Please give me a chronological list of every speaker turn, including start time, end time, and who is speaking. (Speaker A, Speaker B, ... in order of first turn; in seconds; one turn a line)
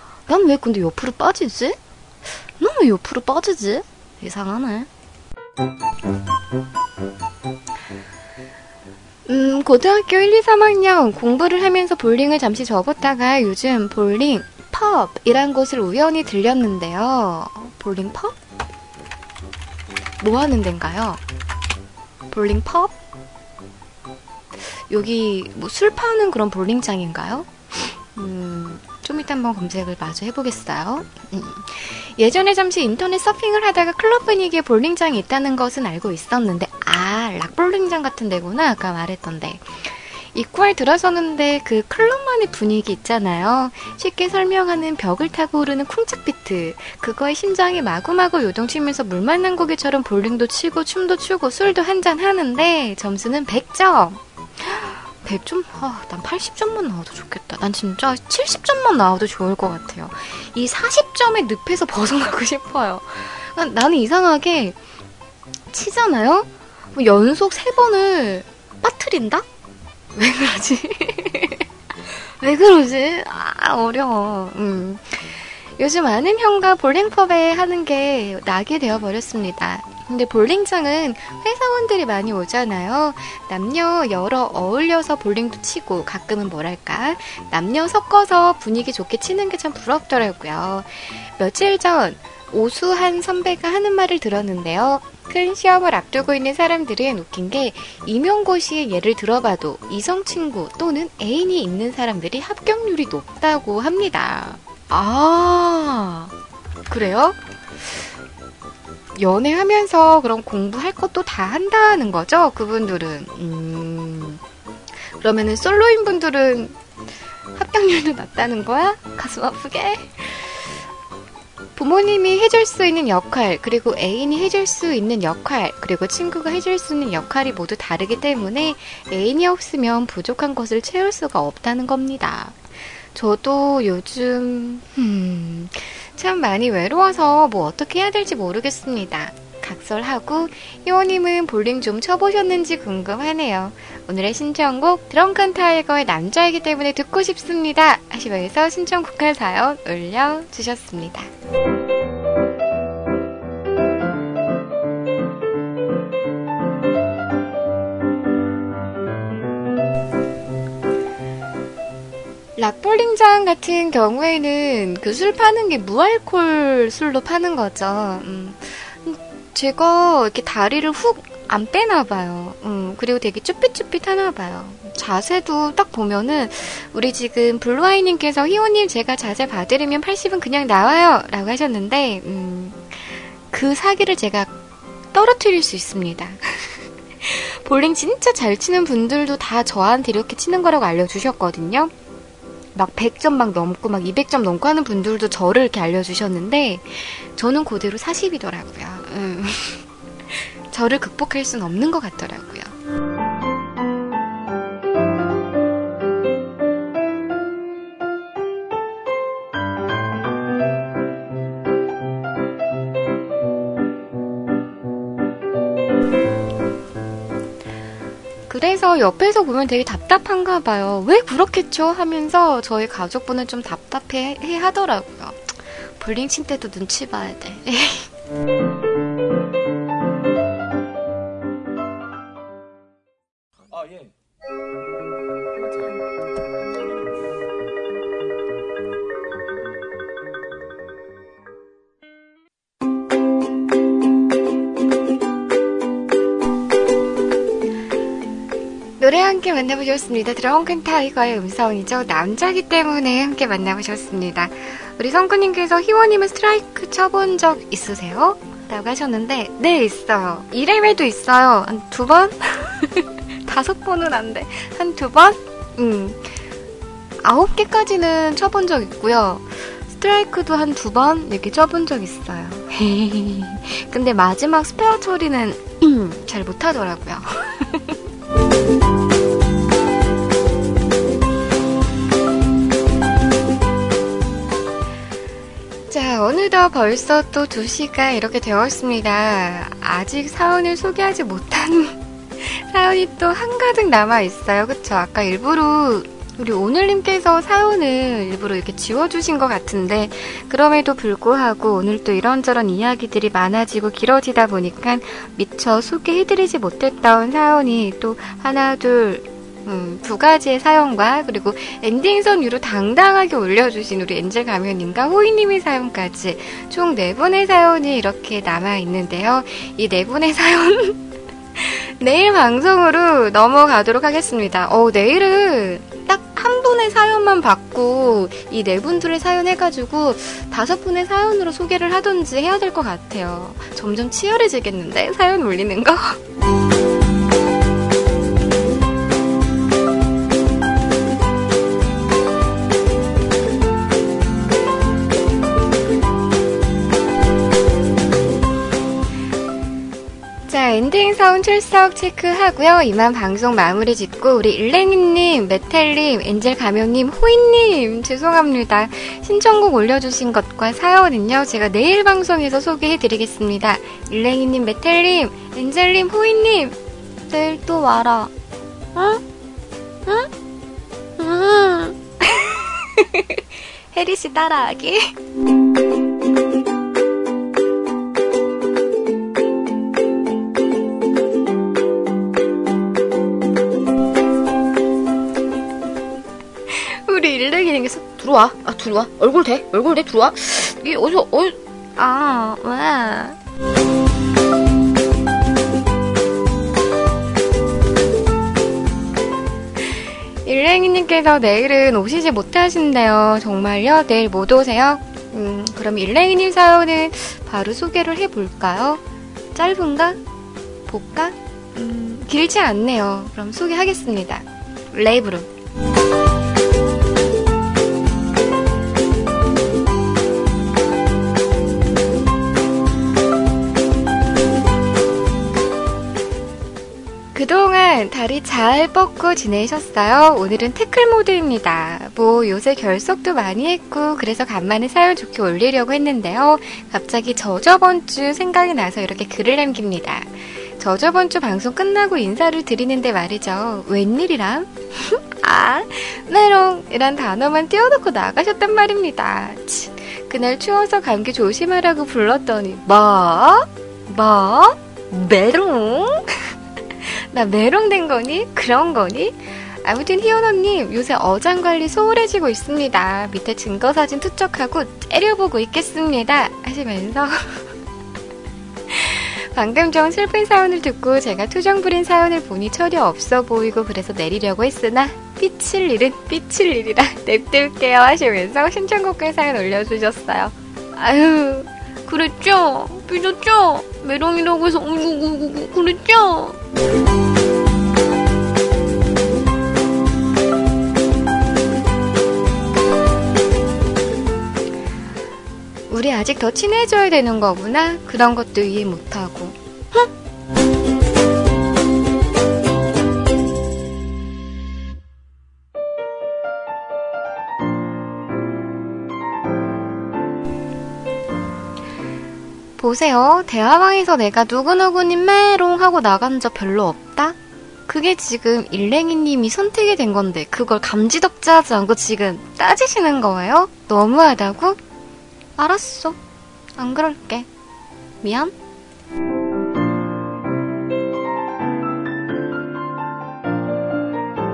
Speaker A: 0.3-1.8
Speaker A: 2.4-4.9
Speaker A: 9.3-18.4
Speaker A: 20.2-21.2
Speaker A: 22.3-22.9
Speaker A: 24.9-64.8
Speaker A: 65.7-69.5
Speaker A: 70.2-71.6
Speaker A: 72.4-106.3
Speaker A: 106.9-107.4
Speaker A: 109.2-114.4
Speaker A: 115.0-116.8
Speaker A: 117.5-120.6
Speaker A: 121.8-132.6
Speaker A: 133.1-151.3
Speaker A: 162.6-184.5
Speaker A: 185.1-191.9
Speaker A: 192.8-202.7
Speaker A: 218.5-228.1
Speaker A: 249.0-266.3
Speaker A: 267.2-278.0
Speaker A: 285.9-321.0
Speaker A: 321.6-336.2
Speaker A: 350.5-366.8
Speaker A: 367.3-368.3
Speaker A: 368.9-369.2
Speaker A: 371.2-375.1
Speaker A: 386.7-393.4
Speaker A: 399.8-409.0
Speaker A: 409.6-410.2
Speaker A: 410.9-415.5
Speaker A: 427.4-467.7
Speaker A: 468.9-486.6
Speaker A: 495.9-500.1
Speaker A: 512.8-524.8
Speaker A: 525.6-526.2
Speaker A: 526.8-527.5
Speaker A: 528.2-528.5